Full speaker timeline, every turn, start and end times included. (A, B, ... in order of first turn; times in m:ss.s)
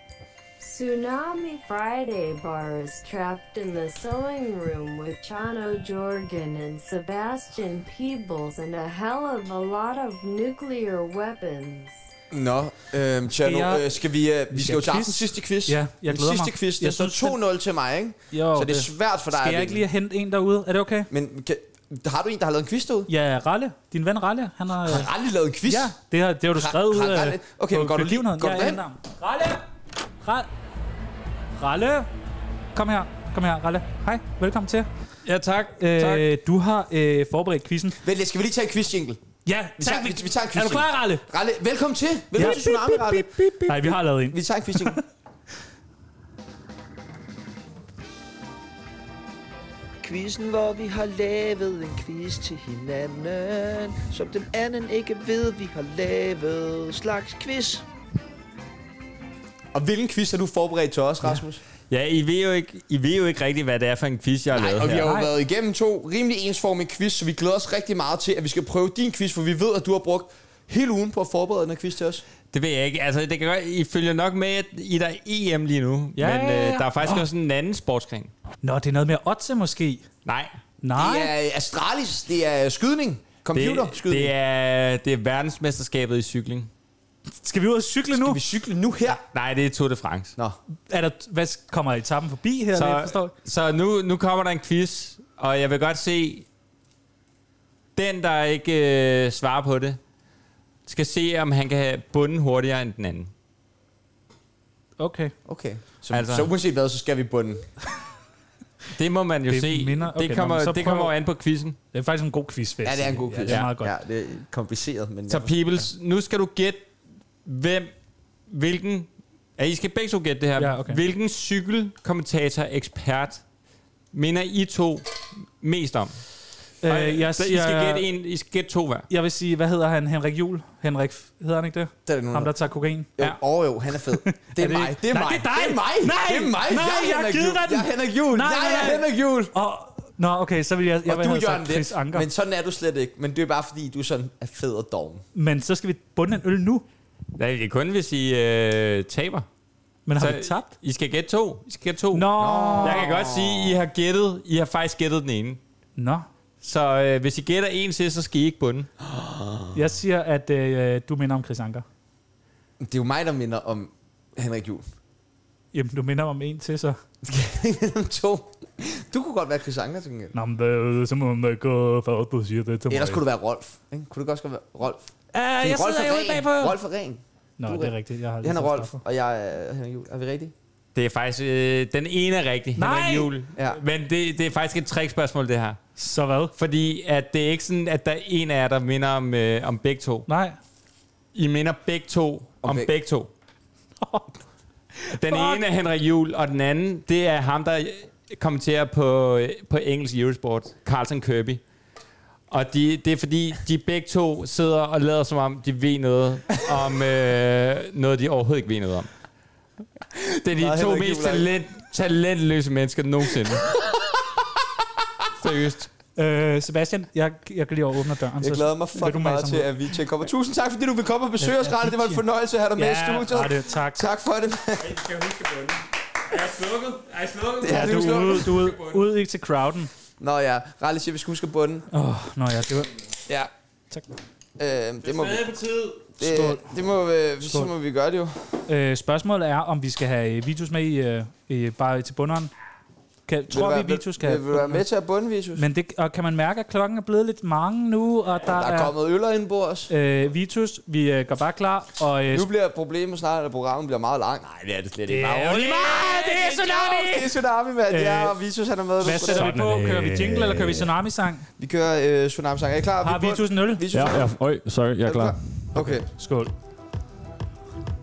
0:00.6-0:12.0 A
0:12.3-0:19.8 B
0:13.4-0:14.0 C
0:14.5-0:17.4 C
0:18.3-0:21.1 C
0:21.1-0:23.1 B
0:23.1-0:25.1 C
0:24.8-0:25.9 B
0:25.7-0:29.6 C
0:26.6-0:28.8 B
0:30.2-0:30.5 C
0:31.6-0:32.1 C
0:32.7-0:34.9 C
0:35.2-0:36.3 D
0:35.8-0:38.0 C
0:38.0-0:39.2 B
0:39.5-0:41.2 C
0:39.8-0:45.0 B
0:42.4-0:45.0 C
0:50.0-0:57.8 E
0:59.7-1:01.6 B
1:01.9-1:05.1 D
1:04.5-1:12.2 B
1:05.0-1:05.3 C
1:12.5-1:18.3 D
1:16.2-1:17.3 C
1:18.6-1:20.1 C
1:20.2-1:20.5 D
1:20.8-1:21.3 C
1:21.0-1:24.3 B
1:23.5-1:26.7 D
1:27.3-1:28.4 C
1:28.1-1:29.2 B
1:29.3-1:30.4 D
1:30.9-1:33.3 C
1:32.7-1:36.5 D
1:38.0-1:40.0 D
1:40.9-1:43.3 D
1:45.0-1:45.3 C
1:45.5-1:47.7 B
1:46.1-1:46.5 D
1:49.0-1:51.8 D
1:49.5-1:51.1 C
1:51.9-1:53.9 C
1:52.8-1:55.6 B
1:55.3-1:56.9 D
1:57.4-1:57.9 D
1:58.5-2:03.4 D
2:00.6-2:01.0 C
2:04.1-2:06.2 D
2:06.8-2:08.1 C
2:06.8-2:09.1 D
2:09.1-2:13.4 C
2:12.1-2:12.5 B
2:13.2-2:19.5 B
2:14.1-2:22.3 C
2:21.1-2:25.2 B
2:25.4-2:26.8 C
2:27.4-2:29.5 D
2:30.1-2:30.7 C
2:30.2-2:32.3 D
2:32.1-2:33.1 C
2:32.4-2:33.8 B
2:32.8-2:35.6 D
2:36.0-2:36.3 C
2:36.6-2:38.9 D
2:39.0-2:39.7 B
2:39.7-2:41.8 C
2:42.8-2:44.8 B
2:45.7-2:47.0 C
2:47.2-2:50.3 B
2:50.3-2:53.2 C
2:52.9-2:55.0 B
2:55.3-2:56.8 C
2:55.6-3:00.5 B
2:57.6-2:59.0 C
3:01.0-3:05.8 D
3:02.8-3:03.3 C
3:06.0-3:06.5 C
3:06.6-3:10.3 D
3:10.3-3:10.6 C
3:11.3-3:13.3 D
3:12.6-3:12.9 B
3:14.0-3:14.3 C
3:15.0-3:15.6 C
3:15.1-3:21.6 D
3:22.5-3:29.1 D
3:30.4-3:31.5 B
3:30.4-3:33.7 D
3:35.4-3:35.9 D
3:36.2-3:39.7 C
3:38.4-3:45.1 B
3:41.4-3:42.2 C
3:42.8-3:44.1 C
3:45.1-3:45.5 D
3:46.4-3:47.8 D
3:47.6-3:48.6 B
3:47.6-3:49.9 C
3:50.2-3:51.9 B
3:51.9-3:52.9 C
3:54.6-3:55.6 B
3:56.1-3:58.3 B
3:56.2-3:56.7 C
3:57.4-3:57.7 C
3:58.7-4:02.5 C
4:03.3-4:04.8 C
4:03.5-4:05.6 B
4:05.6-4:08.9 C
4:08.6-4:09.9 B
4:09.9-4:12.5 C
4:12.3-4:19.6 B
4:15.1-4:17.3 C
4:17.9-4:18.4 C
4:19.0-4:21.4 C
4:19.2-4:20.9 F
4:21.6-4:24.4 B
4:23.0-4:23.9 C
4:23.9-4:25.8 F
4:25.0-4:26.1 B
4:25.9-4:26.5 C